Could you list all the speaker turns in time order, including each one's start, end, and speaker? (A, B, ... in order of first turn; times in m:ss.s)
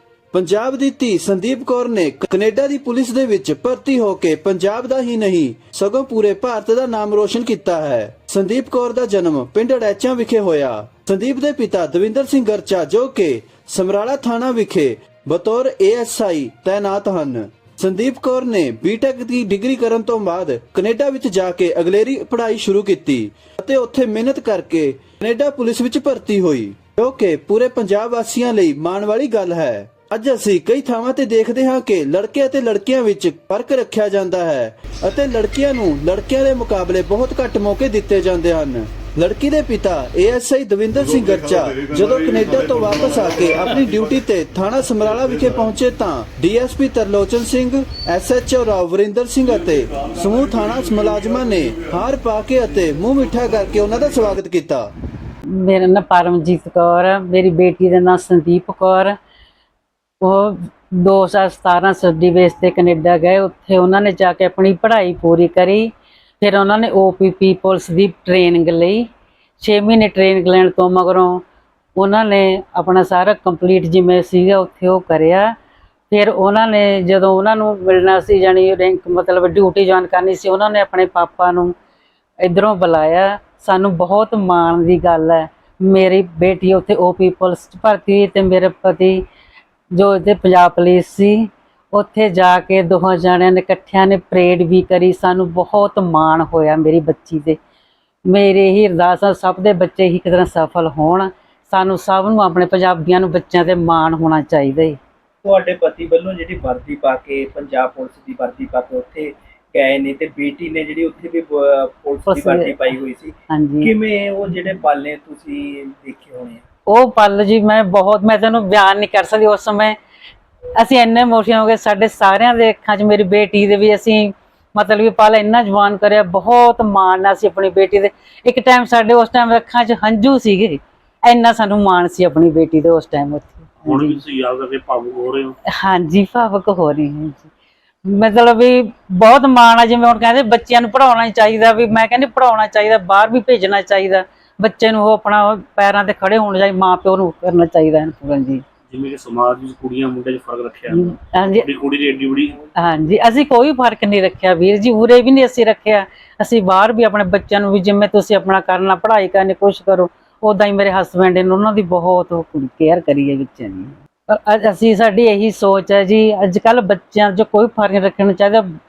0:00.3-0:54.9 A
0:55.6-0:59.1 B
1:00.2-1:09.0 B
1:09.6-1:11.4 B
1:12.0-1:15.5 B
1:16.1-1:21.7 B
1:22.4-1:29.2 B
1:29.9-1:37.6 B
1:38.3-1:45.0 B
1:45.4-1:56.6 C
1:52.3-1:53.0 B
1:53.5-1:53.9 B
1:56.9-2:00.0 B
2:00.8-2:14.2 B
2:13.8-2:15.5 D
2:15.7-2:17.5 B
2:18.0-2:28.6 B
2:28.9-2:32.6 D
2:30.9-2:31.7 B
2:32.7-2:48.6 B